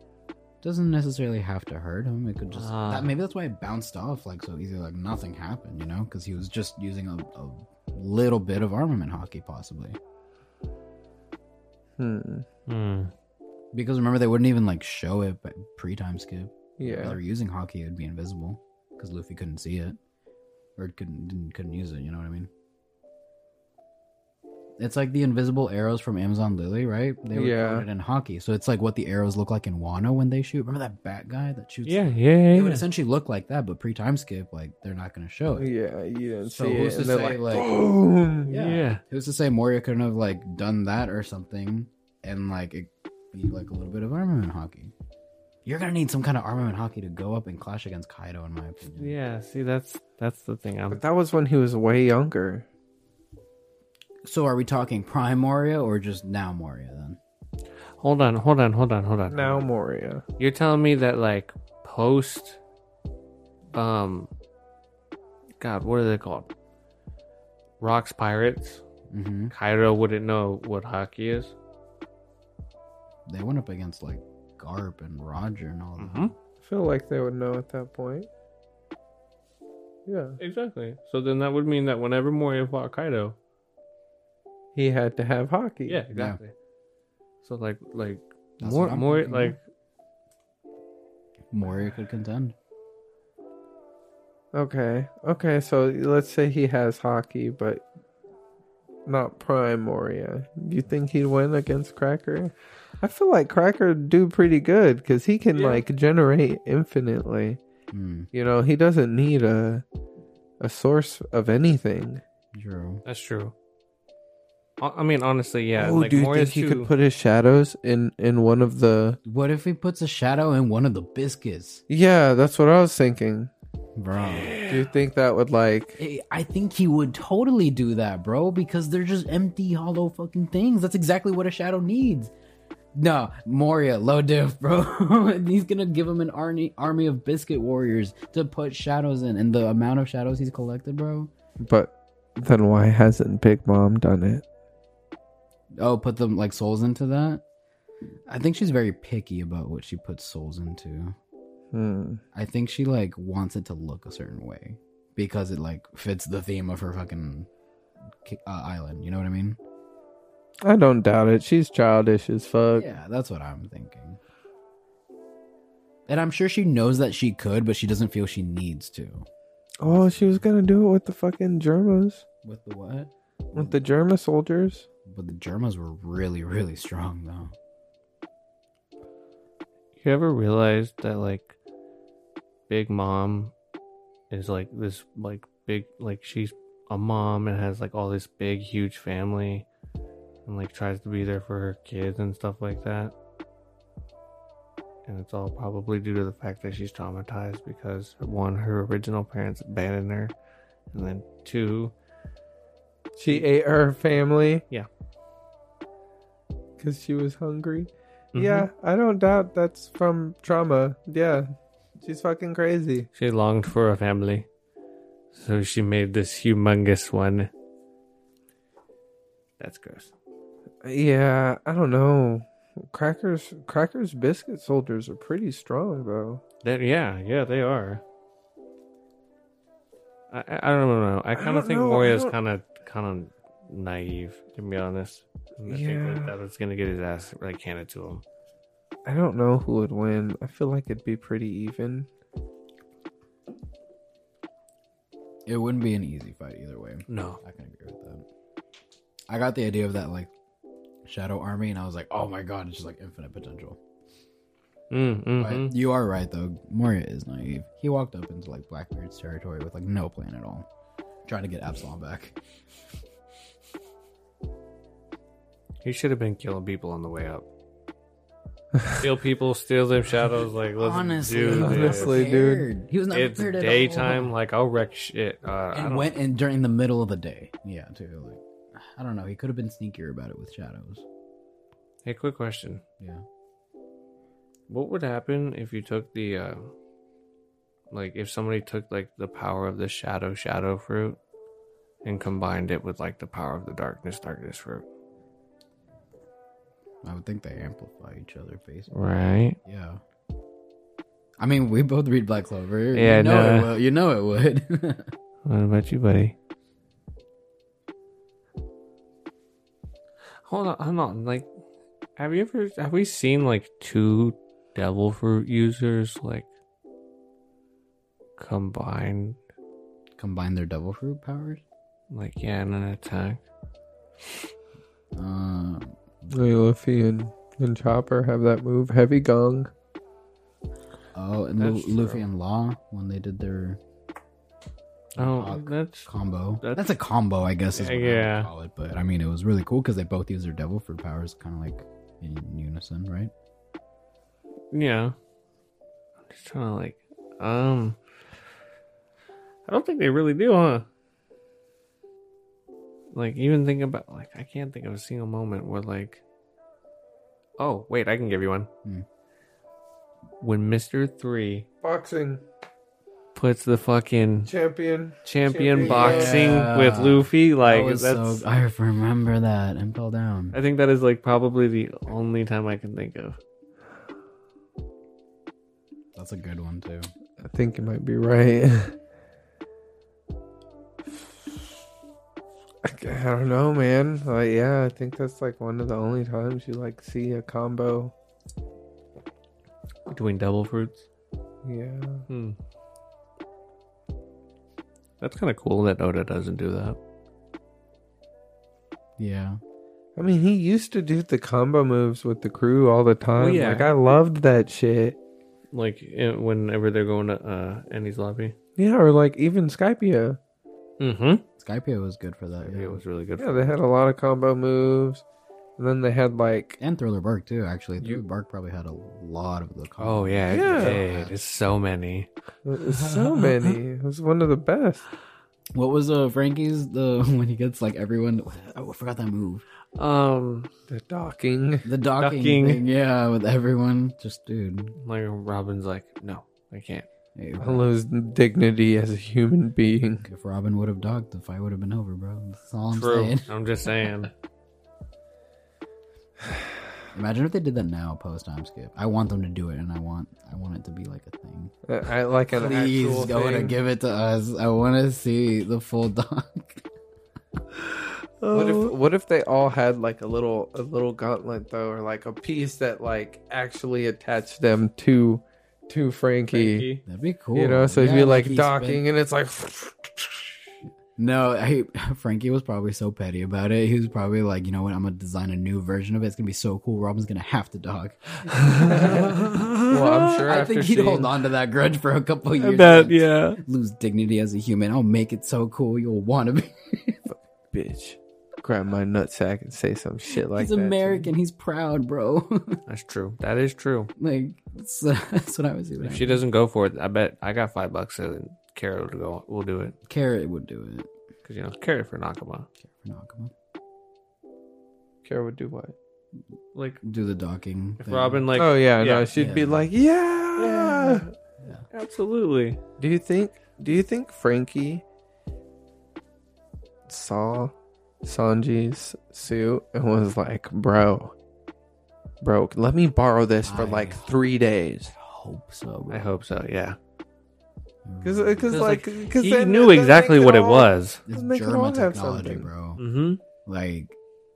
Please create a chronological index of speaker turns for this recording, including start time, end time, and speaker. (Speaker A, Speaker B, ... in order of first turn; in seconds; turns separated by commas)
Speaker A: 0.6-10.0, Speaker B: 2.5-3.1, Speaker C: 12.0-12.5, Speaker B: 12.7-13.1, Speaker A: 13.7-20.0, Speaker C: 16.8-17.2, Speaker A: 20.8-22.5, Speaker A: 24.8-35.7, Speaker C: 27.4-27.9, Speaker B: 31.9-32.9, Speaker C: 35.6-38.5, Speaker A: 36.5-37.8, Speaker B: 38.5-39.0, Speaker A: 38.5-44.9, Speaker A: 45.6-49.2, Speaker B: 49.0-51.0, Speaker C: 50.9-52.7, Speaker A: 54.2-57.2, Speaker B: 58.0-59.6, Speaker C: 59.3-60.2, Speaker B: 60.4-62.6, Speaker B: 63.7-64.3, Speaker B: 65.6-66.5, Speaker B: 67.8-68.8, Speaker A: 69.1-69.5, Speaker B: 69.5-71.5, Speaker A: 73.3-76.3, Speaker B: 76.0-76.3, Speaker C: 76.6-78.3, Speaker C: 80.1-80.4, Speaker B: 80.4-83.4, Speaker C: 84.8-86.1, Speaker B: 85.9-86.5, Speaker A: 86.1-86.4, Speaker B: 87.4-89.6, Speaker A: 88.6-89.6, Speaker A: 91.5-92.5, Speaker C: 94.5-97.8, Speaker C: 99.1-107.6, Speaker B: 105.5-105.8, Speaker A: 107.9-108.3, Speaker C: 108.3-109.8, Speaker C: 110.6-112.2, Speaker A: 112.5-113.0, Speaker B: 113.1-113.5, Speaker B: 114.8-116.9, Speaker C: 115.8-119.2, Speaker A: 119.2-121.8, Speaker C: 121.9-123.5, Speaker A: 124.0-124.6, Speaker B: 124.4-124.7, Speaker C: 124.7-126.0, Speaker A: 126.0-132.3, Speaker A: 132.9-141.3, Speaker C: 141.6-144.4, Speaker A: 145.8-147.4, Speaker A: 148.3-151.2, Speaker C: 151.7-152.2, Speaker A: 152.3-157.5, Speaker A: 158.2-159.6, Speaker C: 160.7-162.9, Speaker A: 162.8-164.2, Speaker A: 166.1-169.3, Speaker C: 169.8-172.2, Speaker A: 169.8-170.4, Speaker A: 172.4-173.8, Speaker C: 173.5-174.9, Speaker A: 175.1-177.5, Speaker B: 180.0-181.6, Speaker B: 182.7-183.5, Speaker B: 184.3-189.7, Speaker B: 190.5-193.1, Speaker B: 195.1-200.3, Speaker B: 200.9-201.9, Speaker C: 203.2-204.6, Speaker C: 206.8-211.5, Speaker B: 208.3-208.7, Speaker C: 212.0-213.1, Speaker B: 213.2-214.5, Speaker B: 215.3-217.5, Speaker B: 219.6-220.1, Speaker C: 220.8-226.4, Speaker B: 226.6-228.0, Speaker B: 230.3-238.2, Speaker C: 231.4-232.3, Speaker C: 235.7-236.3, Speaker C: 239.1-242.1, Speaker A: 245.5-248.3, Speaker B: 247.1-247.4, Speaker A: 249.3-250.3, Speaker A: 251.1-253.8, Speaker B: 254.9-255.7, Speaker A: 255.4-260.7, Speaker A: 261.3-262.4, Speaker B: 265.8-267.5, Speaker B: 268.9-272.3, Speaker A: 270.8-274.3, Speaker C: 271.5-272.7, Speaker B: 273.1-276.1, Speaker A: 275.7-281.1, Speaker B: 282.1-282.8, Speaker B: 284.7-286.7, Speaker B: 287.9-291.2, Speaker B: 292.0-294.9, Speaker A: 297.0-298.9, Speaker B: 298.9-299.6, Speaker A: 299.6-300.0, Speaker A: 301.4-305.1, Speaker B: 302.9-303.7, Speaker B: 305.4-306.4, Speaker B: 310.5-311.5, Speaker B: 312.2-316.5, Speaker B: 318.4-319.4, Speaker A: 320.2-321.6, Speaker B: 322.1-323.4, Speaker A: 325.1-326.0, Speaker C: 326.3-329.7, Speaker A: 331.1-333.8, Speaker B: 331.6-332.2, Speaker A: 335.2-343.3, Speaker B: 335.2-336.1, Speaker B: 336.6-336.9, Speaker B: 337.8-338.5, Speaker B: 344.7-345.1, Speaker B: 346.3-348.0, Speaker B: 349.7-350.9, Speaker B: 353.1-356.2, Speaker B: 357.6-358.7, Speaker B: 360.4-361.7, Speaker C: 361.8-362.4, Speaker B: 363.4-364.5, Speaker C: 364.5-366.4, Speaker B: 365.2-368.4, Speaker A: 365.8-370.6, Speaker B: 370.5-373.4, Speaker A: 376.1-377.1, Speaker C: 377.4-378.9, Speaker C: 382.8-388.1, Speaker B: 390.1-391.1, Speaker C: 391.6-392.3, Speaker B: 392.3-392.6, Speaker B: 395.2-397.0, Speaker A: 399.2-399.6, Speaker C: 400.2-405.2, Speaker B: 403.4-403.9, Speaker B: 405.7-408.6, Speaker C: 408.8-410.4, Speaker B: 411.0-411.4, Speaker A: 411.6-413.0, Speaker B: 412.7-413.7, Speaker C: 413.4-415.2, Speaker C: 415.8-416.8, Speaker A: 416.8-421.3, Speaker B: 420.0-422.3, Speaker C: 420.5-421.0, Speaker C: 422.6-425.1, Speaker B: 422.9-423.8, Speaker A: 425.7-429.6, Speaker B: 430.0-430.7, Speaker C: 430.9-431.9, Speaker A: 431.8-435.0, Speaker B: 432.2-432.8, Speaker B: 435.0-437.1, Speaker A: 437.4-437.9, Speaker C: 437.6-440.3, Speaker A: 440.2-443.5, Speaker B: 442.9-444.3, Speaker A: 447.1-451.7, Speaker C: 451.9-453.8, Speaker A: 452.5-456.9, Speaker B: 458.4-458.9, Speaker C: 458.5-466.9, Speaker B: 466.5-467.0, Speaker A: 467.1-469.0, Speaker C: 467.5-470.6, Speaker A: 471.2-479.7, Speaker B: 478.5-480.3, Speaker C: 478.8-479.4, Speaker C: 479.9-481.3, Speaker A: 480.4-487.2, Speaker B: 482.6-483.6, Speaker C: 487.3-491.3, Speaker A: 490.5-492.8, Speaker B: 492.9-494.1, Speaker A: 494.2-496.4, Speaker B: 496.0-499.9, Speaker A: 500.1-501.1, Speaker B: 501.4-502.7, Speaker A: 502.9-503.5, Speaker C: 505.2-505.9, Speaker B: 506.8-507.0, Speaker A: 507.0-508.5, Speaker B: 508.0-509.3, Speaker C: 508.6-511.2, Speaker A: 509.3-509.9, Speaker B: 510.6-511.3, Speaker B: 511.9-512.8, Speaker C: 513.0-515.0, Speaker C: 517.1-517.7, Speaker C: 518.2-521.3, Speaker C: 522.4-525.1, Speaker A: 523.6-524.3, Speaker A: 525.1-526.3, Speaker B: 526.1-527.0, Speaker A: 528.0-528.8, Speaker C: 528.2-532.7, Speaker B: 528.7-531.2, Speaker A: 531.3-533.0, Speaker B: 533.0-533.4, Speaker A: 533.7-534.1